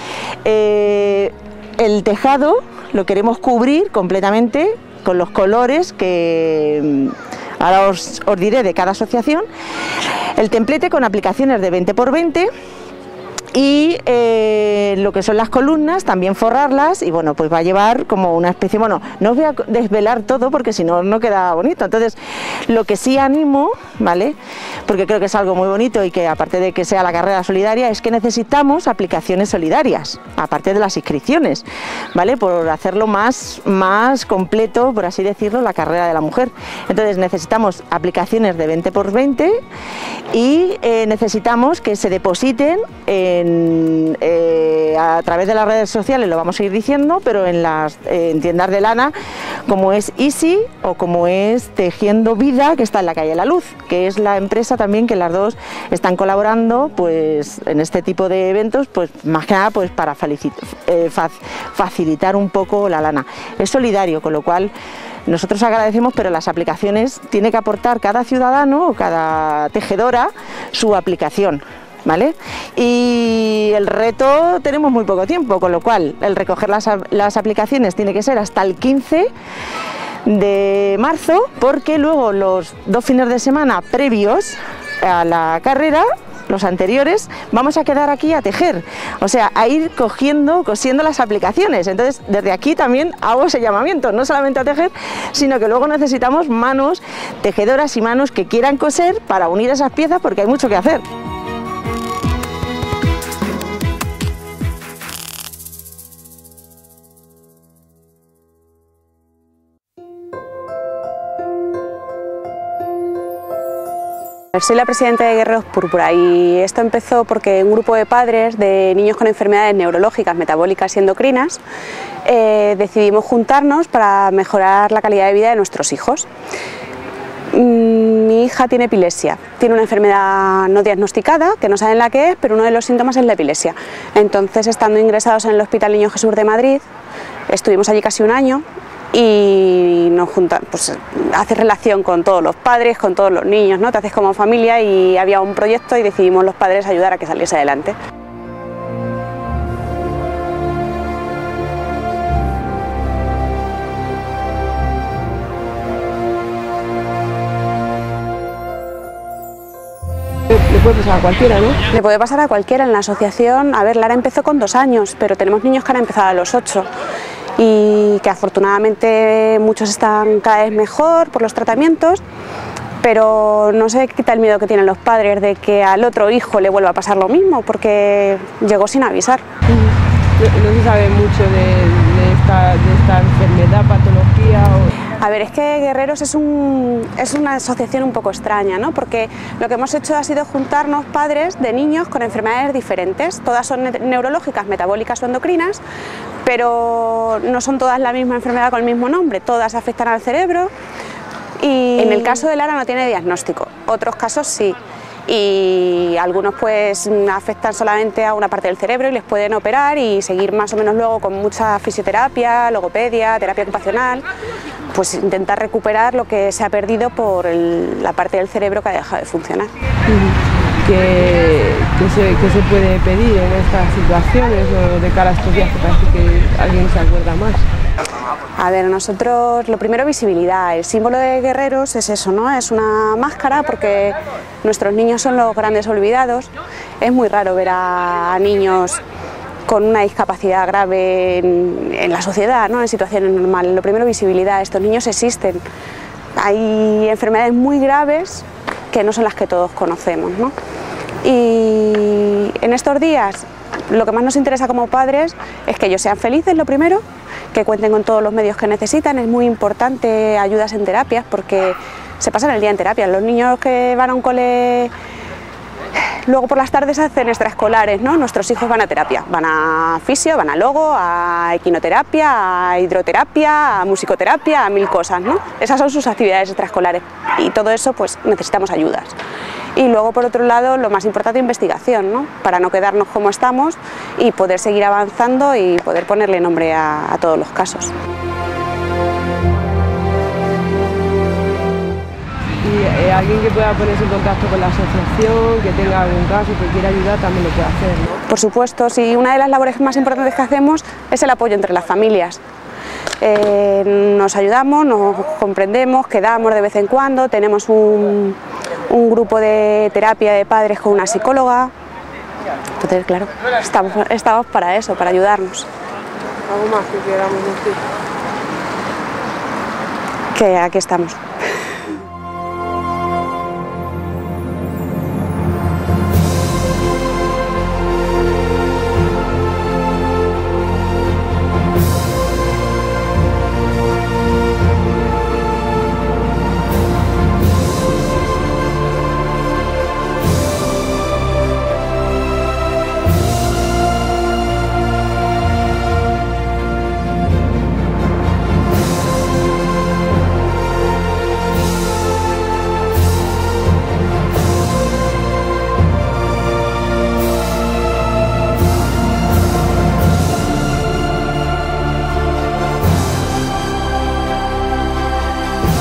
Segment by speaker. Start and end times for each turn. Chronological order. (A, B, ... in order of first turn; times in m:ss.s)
0:00.4-0:09.5 A
0:10.4-0:12.5 A
0:13.5-0:39.6 A
0:40.3-0:49.1 A
0:49.6-1:04.7 A
1:05.3-1:19.3 A
1:20.2-1:41.0 A
1:54.5-2:01.6 B
2:02.2-2:06.3 B
2:07.5-2:16.8 B
2:17.5-2:28.0 B
2:40.5-2:41.8 C
2:41.9-2:46.9 B
2:47.6-2:52.2 B
2:53.0-2:59.4 B
2:59.7-3:04.9 C
3:05.2-3:15.8 B
3:16.4-3:20.7 B
3:21.6-3:34.2 B
3:22.0-3:22.4 C
3:34.9-3:39.7 B
3:40.1-3:47.7 C
3:48.6-3:59.0 B
3:59.7-4:05.6 B
4:06.4-4:10.5 B
4:11.2-4:24.9 B
4:26.2-4:39.2 B
4:39.8-4:47.9 B
4:52.6-4:58.2 C
4:58.3-5:02.4 B
5:03.2-5:08.4 B
5:08.9-5:11.7 B
5:12.8-5:15.7 B
5:16.4-5:17.8 C
5:20.3-5:21.2 B